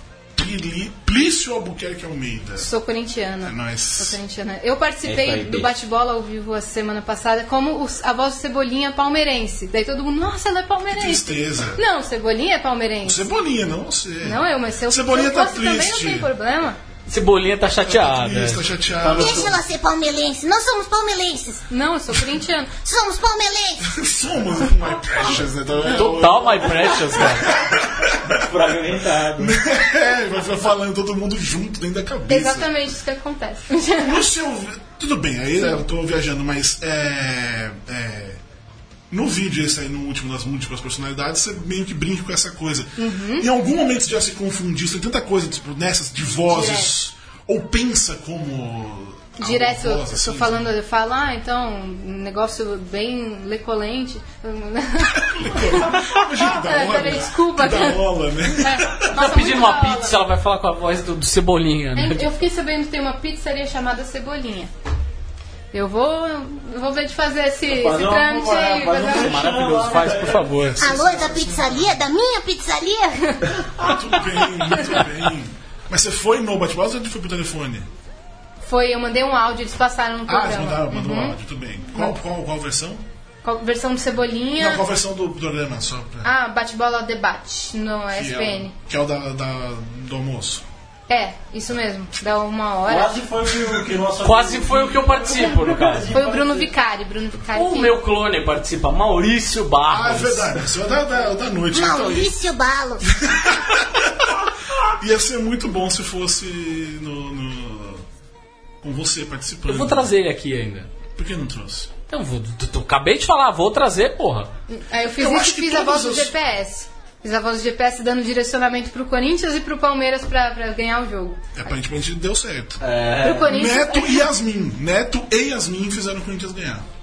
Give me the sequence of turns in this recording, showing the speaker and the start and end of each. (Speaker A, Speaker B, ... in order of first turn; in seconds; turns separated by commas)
Speaker A: 0.3-2.7, Speaker B: 2.6-13.3, Speaker A: 3.4-4.2, Speaker C: 5.0-5.7, Speaker A: 10.9-11.8, Speaker A: 13.0-16.3, Speaker B: 14.2-16.8, Speaker D: 17.1-18.7, Speaker A: 17.8-19.6, Speaker C: 19.0-19.6, Speaker E: 19.1-21.6, Speaker B: 21.7-22.7, Speaker E: 22.8-23.9, Speaker A: 23.8-28.3, Speaker D: 25.8-27.5, Speaker C: 28.3-29.6, Speaker A: 29.4-32.7, Speaker B: 32.3-34.2, Speaker A: 33.9-38.4, Speaker A: 39.1-50.7, Speaker B: 43.0-43.5, Speaker B: 46.5-46.9, Speaker B: 49.4-60.2, Speaker A: 55.1-59.0, Speaker D: 59.1-62.3, Speaker B: 61.9-64.7, Speaker B: 65.7-69.4, Speaker C: 67.7-70.7, Speaker D: 69.0-70.9, Speaker A: 70.5-72.0, Speaker E: 70.8-73.4, Speaker C: 73.7-74.1, Speaker A: 73.8-77.9, Speaker B: 78.6-81.4, Speaker A: 80.3-83.0, Speaker B: 83.4-84.8, Speaker A: 84.6-86.3, Speaker B: 86.2-88.7, Speaker A: 88.1-90.6, Speaker B: 91.1-93.2, Speaker C: 92.8-96.7, Speaker D: 94.2-96.1, Speaker B: 96.1-98.0, Speaker D: 97.5-100.6, Speaker A: 99.9-102.4, Speaker E: 101.7-103.1, Speaker A: 103.1-104.3, Speaker A: 104.8-108.0, Speaker A: 108.8-110.1, Speaker D: 109.7-110.9, Speaker A: 111.1-111.9, Speaker D: 112.1-114.5, Speaker B: 114.7-121.4, Speaker A: 115.2-116.3, Speaker A: 121.5-122.8, Speaker C: 122.8-123.6, Speaker B: 123.2-124.2, Speaker A: 123.4-126.8